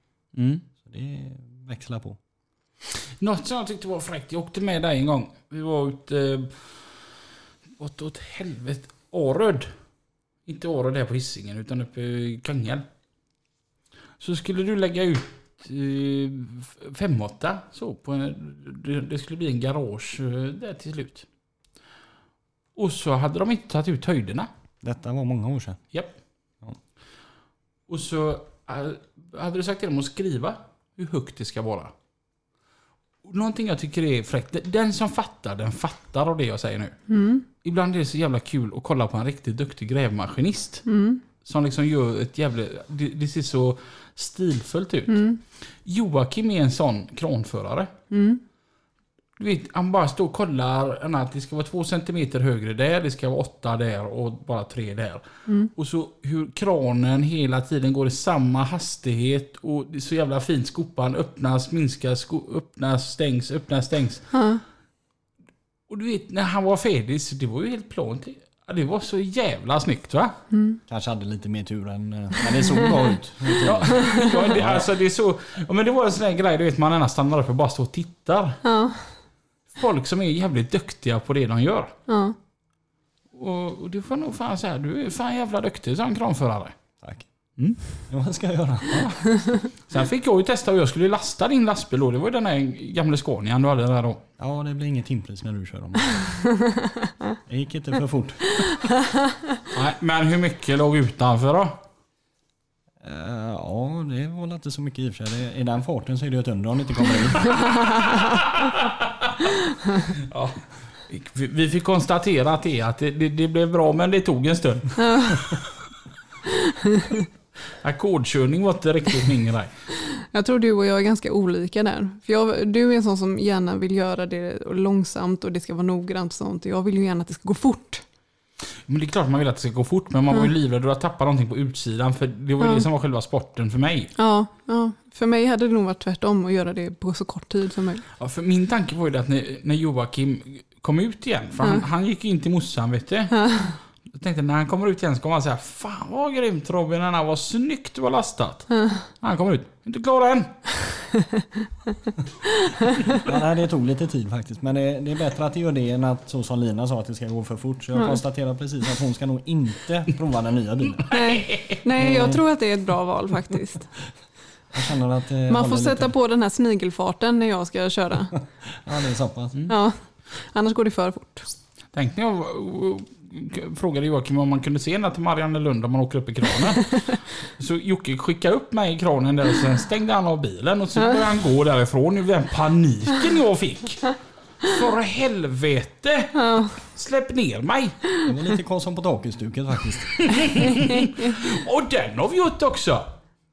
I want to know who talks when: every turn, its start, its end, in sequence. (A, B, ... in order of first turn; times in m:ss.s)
0:00.3-0:00.6 A
0:00.8-0:02.2 B
0:03.2-0:07.0 A
0:07.8-0:09.7 A
0:10.4-0:12.8 A
0:14.2-0:21.2 A
0:22.7-0:24.5 A
0:24.8-0:25.8 B
0:27.9-0:31.9 A
0:33.2-0:47.9 A
0:37.1-0:37.4 C
0:40.8-0:41.2 C
0:45.1-0:45.4 C
0:48.1-0:48.4 C
0:49.4-1:04.2 A
1:04.3-1:04.6 C
1:05.9-1:10.4 A
1:10.5-1:10.8 C
1:10.9-1:14.9 B
1:13.6-1:18.6 A
1:18.6-1:19.0 C
1:19.7-1:21.9 A
1:22.1-1:22.4 C
1:23.3-1:26.8 A
1:27.0-1:27.3 B
1:27.6-1:28.0 A
1:27.9-1:29.2 B
1:28.9-1:34.2 A
1:34.4-1:36.3 B
1:37.4-1:38.6 B
1:39.7-1:41.8 A
1:43.0-1:47.6 B
1:48.7-1:49.5 A
1:50.0-1:55.6 A
1:55.0-1:55.4 C
1:56.9-1:57.2 C
1:57.8-1:59.7 A
2:00.2-2:08.0 C
2:08.8-2:14.1 A
2:12.6-2:12.8 C
2:14.2-2:18.0 C
2:18.2-2:23.6 A
2:23.4-2:23.7 C
2:24.1-2:30.7 A
2:28.7-2:29.0 C
2:32.6-2:33.0 C
2:33.2-2:41.2 B
2:41.1-2:41.8 A
2:41.1-2:43.9 C
2:42.0-2:42.4 B
2:44.7-2:46.1 B
2:45.5-2:48.4 C
2:48.8-2:49.6 B
2:49.7-2:51.5 C
2:51.9-3:08.0 A
3:06.4-3:06.7 C
3:08.2-3:10.3 B
3:10.2-3:13.1 A
3:11.0-3:11.3 C